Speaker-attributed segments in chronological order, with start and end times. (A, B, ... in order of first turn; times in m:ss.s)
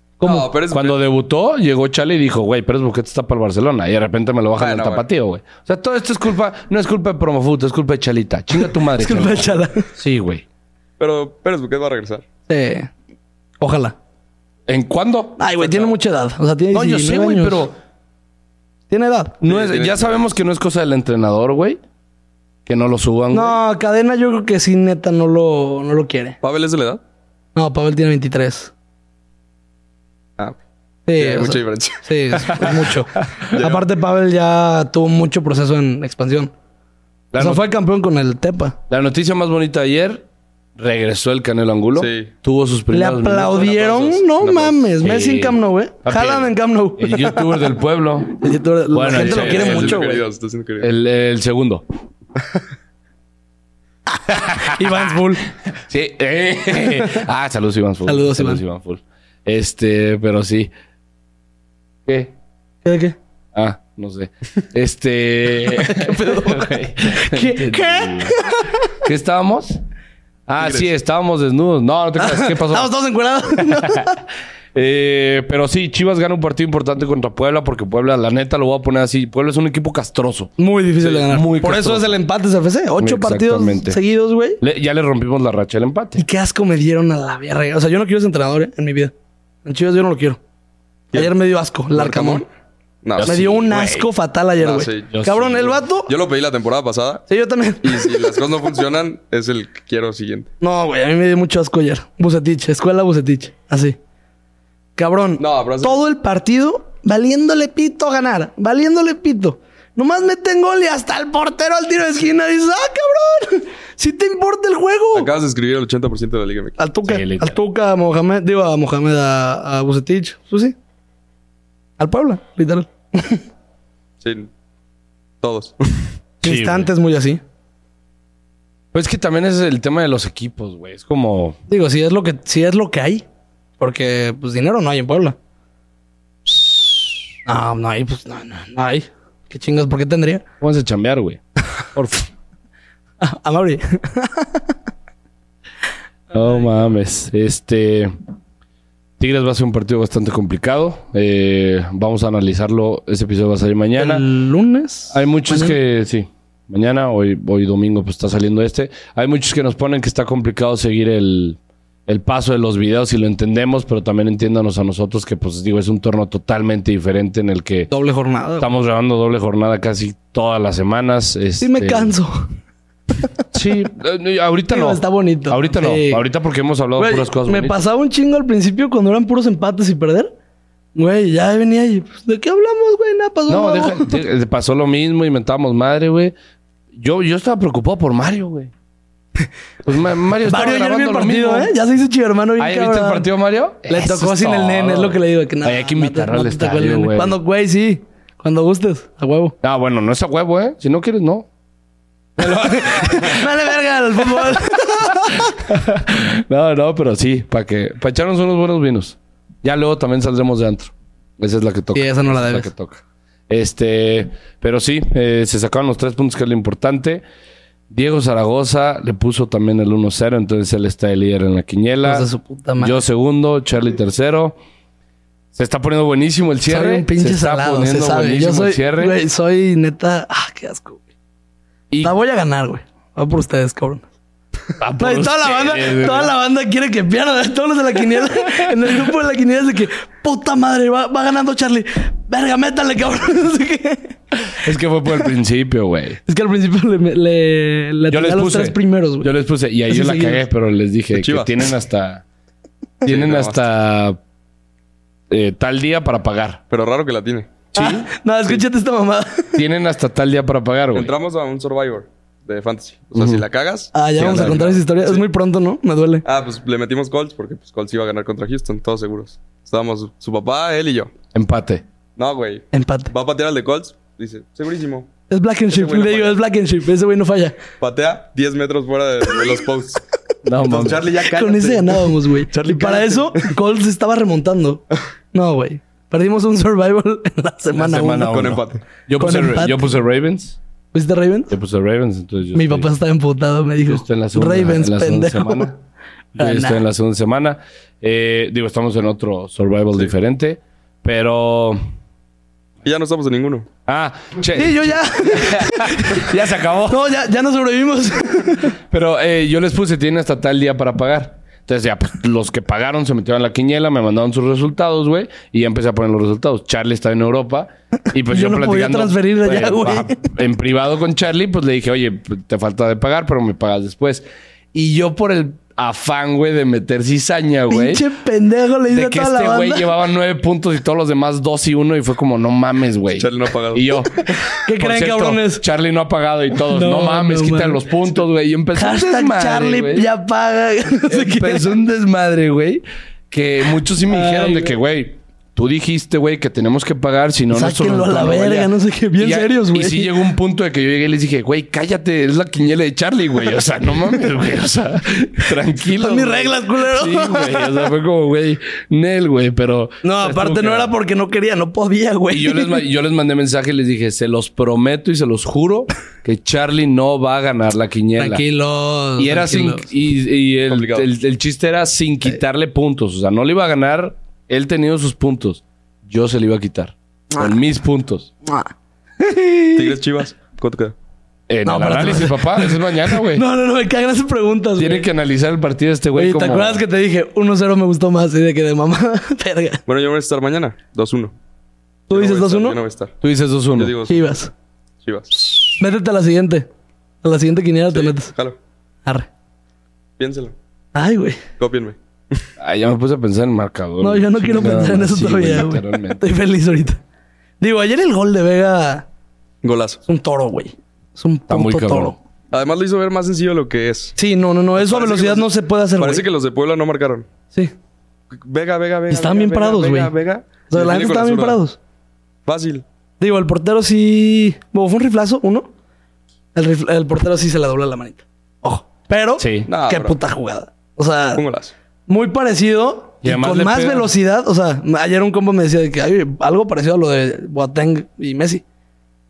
0:00.2-0:01.0 A
0:00.2-0:00.5 B
0:00.7-0:10.4 C
0:04.6-0:05.1 A
0:08.8-0:09.9 B
0:11.0-0:12.2 A
0:12.5-0:12.9 B
0:13.6-0:13.9 B
0:14.7-0:15.4 C
0:15.4-0:17.7 B
0:15.6-0:15.9 A
0:16.7-0:17.7 C
0:18.9-0:19.4 B
0:19.4-0:21.8 C
0:19.4-0:20.3 A
0:22.6-0:23.6 C
0:23.3-0:26.4 B
0:26.4-0:27.0 A
0:27.6-0:28.7 B
0:31.1-0:36.5 B
0:31.2-0:32.0 A
0:32.4-0:33.5 C
0:33.5-0:33.9 A
0:37.3-0:37.6 C
0:37.4-0:38.8 B
0:38.9-0:40.2 C
0:40.8-0:43.6 C
0:42.0-0:42.3 A
0:42.9-0:47.4 B
0:43.4-0:44.8 A
0:45.0-0:48.4 C
0:48.3-0:50.2 B
0:48.9-0:50.0 C
0:49.1-0:50.9 A
0:50.8-0:51.8 C
0:54.2-0:55.5 B
0:54.3-0:55.2 C
0:55.8-1:00.7 C
0:58.0-0:58.6 B
1:02.0-1:02.3 C
1:02.8-1:03.2 B
1:03.5-1:08.4 C
1:05.7-1:09.0 B
1:09.0-1:09.8 C
1:10.5-1:12.9 C
1:10.6-1:10.9 A
1:12.2-1:14.2 B
1:13.5-1:14.1 C
1:14.7-1:20.5 C
1:20.6-1:24.6 B
1:21.0-1:22.2 C
1:23.0-1:24.0 C
1:24.6-1:26.2 C
1:26.2-1:29.1 B
1:29.6-1:30.4 B
1:31.1-1:32.4 B
1:31.9-1:32.4 A
1:33.0-1:33.3 A
1:33.2-1:34.1 C
1:33.2-1:36.1 B
1:34.6-1:35.1 A
1:35.1-1:35.8 C
1:36.0-1:37.2 A
1:37.3-1:38.3 B
1:37.8-1:40.5 A
1:40.6-1:44.0 B
1:45.0-1:55.3 B
1:45.4-1:46.0 A
1:55.1-1:56.8 A
1:56.8-2:00.7 B
1:57.0-1:57.6 C
2:02.0-2:03.4 B
2:04.2-2:04.5 A
2:05.4-2:06.1 A
2:06.4-2:07.4 B
2:06.4-2:06.9 C
2:08.9-2:11.6 C
2:11.7-2:13.2 B
2:13.8-2:15.4 B
2:17.4-2:20.4 B
2:20.6-2:21.4 C
2:21.9-2:22.2 C
2:23.2-2:24.7 B
2:26.3-2:28.1 C
2:29.2-2:34.2 C
2:34.0-2:35.8 B
2:35.1-2:47.9 C
2:47.9-2:48.7 B
2:48.6-2:52.1 C
2:51.6-2:52.5 B
2:53.5-2:57.8 C
2:54.7-2:56.2 B
2:57.0-3:00.3 B
3:00.9-3:04.2 B
3:03.5-3:06.3 C
3:06.9-3:08.7 C
3:09.8-3:11.7 C
3:10.4-3:13.3 B
3:12.6-3:17.4 C
3:13.9-3:19.5 B
3:19.6-3:21.5 C
3:22.4-3:23.5 C
3:22.4-3:25.6 B
3:24.2-3:37.2 C
3:31.9-3:32.7 B
3:37.9-3:42.3 C
3:42.0-3:43.0 B
3:42.8-3:44.6 C
3:45.5-3:49.1 C
3:46.6-3:51.0 B
3:52.0-3:54.0 B
3:54.8-3:56.3 C
3:55.0-4:04.6 B
4:04.6-4:06.2 C
4:06.2-4:09.3 B
4:08.1-4:12.2 C
4:09.9-4:10.4 B
4:11.1-4:11.6 A
4:13.0-4:14.2 C
4:13.0-4:13.6 A
4:15.3-4:16.6 C
4:16.7-4:17.6 A
4:17.7-4:18.1 C
4:17.8-4:19.6 B
4:19.5-4:21.1 C
4:20.9-4:25.2 A
4:23.1-4:23.4 C
4:23.9-4:26.2 B
4:24.2-4:24.7 C
4:26.2-4:31.1 A
4:31.3-4:31.8 C
4:32.2-4:35.1 A
4:32.7-4:33.1 B
4:35.3-4:37.6 B
4:35.7-4:36.4 A
4:37.8-4:40.0 A
4:40.4-4:41.1 C
4:40.6-4:43.5 A
4:41.2-4:48.5 B
4:47.7-4:50.6 C
4:48.1-4:48.8 A
4:49.2-4:49.8 B
4:50.9-4:51.5 B
4:51.5-4:52.9 C
4:52.5-4:55.7 B
4:53.9-4:55.8 C
4:56.4-4:56.8 B
4:56.4-5:01.8 C
5:02.8-5:03.7 A
5:03.8-5:07.0 C
5:04.5-5:06.3 B
5:06.9-5:08.7 B
5:08.9-5:28.0 C
5:18.3-5:20.2 B
5:27.7-5:29.9 B
5:28.9-5:40.1 C
5:33.1-5:34.2 A
5:34.5-5:35.6 B
5:36.6-5:37.8 B
5:38.7-5:41.7 B
5:41.1-6:00.9 C
5:44.1-5:44.8 B
5:47.5-5:50.2 B
5:55.8-5:57.8 B
6:00.0-6:02.8 B
6:02.3-6:08.4 C
6:08.2-6:09.9 B
6:09.2-6:18.3 C
6:10.7-6:11.1 A
6:18.4-6:20.0 B
6:19.8-6:20.9 A
6:21.5-6:23.4 C
6:21.6-6:25.1 B
6:24.8-6:26.8 C
6:26.1-6:29.8 B
6:29.9-6:31.3 A
6:32.1-6:32.8 B
6:32.1-6:33.2 A
6:33.2-6:34.0 C
6:33.8-6:34.3 A
6:34.1-6:34.5 B
6:35.0-6:35.8 A
6:35.8-6:36.7 B
6:37.2-6:38.3 B
6:37.9-6:38.6 A
6:40.2-6:40.5 A
6:40.9-6:41.4 B
6:41.6-6:42.4 A
6:42.6-6:46.2 C
6:44.0-6:47.0 B
6:47.6-6:49.0 B
6:49.6-6:50.0 A
6:50.1-6:52.2 B
6:51.5-6:52.1 C
6:52.5-6:54.2 A
6:54.2-6:56.2 B
6:54.8-6:55.5 A
6:56.0-6:57.3 A
6:58.3-7:01.6 A
6:59.1-7:00.1 B
7:00.7-7:01.8 B
7:02.4-7:02.8 A
7:03.2-7:05.7 B
7:06.5-7:11.4 B
7:09.4-7:09.7 C
7:09.7-7:10.2 A
7:11.4-7:11.7 A
7:12.1-7:18.6 B
7:13.2-7:14.1 C